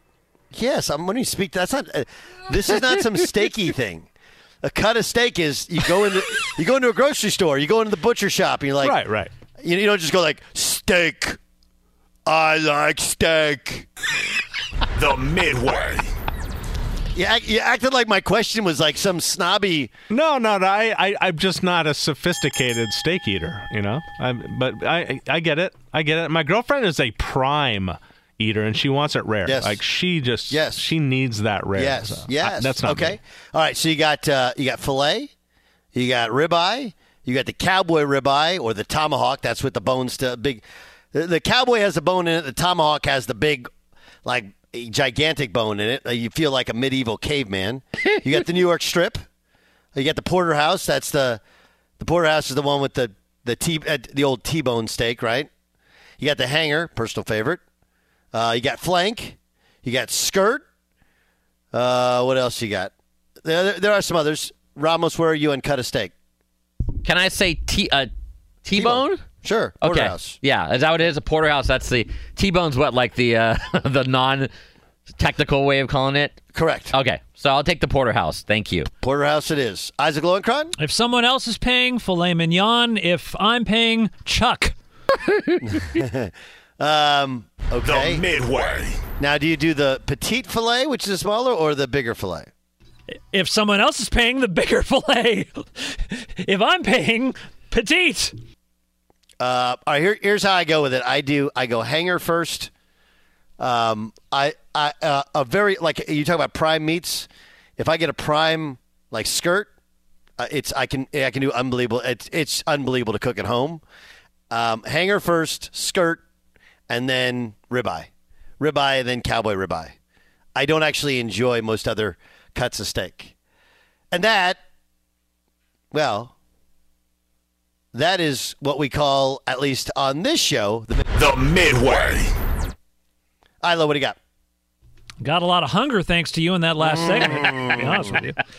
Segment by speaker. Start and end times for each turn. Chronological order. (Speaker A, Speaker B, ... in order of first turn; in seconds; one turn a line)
Speaker A: 0.5-4.1
Speaker A: 4.6-9.0
Speaker B: 8.8-9.3
Speaker A: 9.6-11.4
Speaker A: 12.3-13.9
Speaker C: 15.0-16.0
Speaker A: 17.1-19.9
Speaker B: 20.1-33.2
Speaker A: 29.4-29.8
Speaker A: 30.5-30.8
Speaker A: 31.7-35.3
Speaker A: 35.9-40.6
Speaker A: 41.1-43.7
Speaker A: 44.2-49.2
Speaker A: 49.9-51.4
Speaker A: 52.0-55.5
Speaker A: 56.2-57.6
Speaker A: 58.3-60.6
Speaker A: 61.7-62.9
Speaker A: 63.4-66.1
Speaker D: 67.0-68.1
Speaker D: 68.7-69.2
Speaker A: 68.7-70.4
Speaker D: 69.8-74.5
Speaker D: 75.1-78.9
Speaker A: 76.5-76.9
Speaker A: 79.0-80.7
Speaker E: 80.8-84.7
Speaker A: 85.7-88.2
Speaker C: 87.8-89.0
Speaker A: 89.2-92.5
Speaker E: 93.3-98.3
Speaker A: 99.4-102.7
Speaker A: 103.6-109.7
Speaker A: 110.4-113.8
Speaker A: 114.5-116.2
Speaker A: 116.9-119.9
Speaker A: 120.5-123.3
Speaker A: 124.1-124.6
Speaker A: 125.9-126.3
Speaker A: 127.9-131.1
Speaker C: 131.2-132.3
Speaker A: 133.6-134.2
Speaker E: 135.2-138.4
Speaker A: 136.8-138.2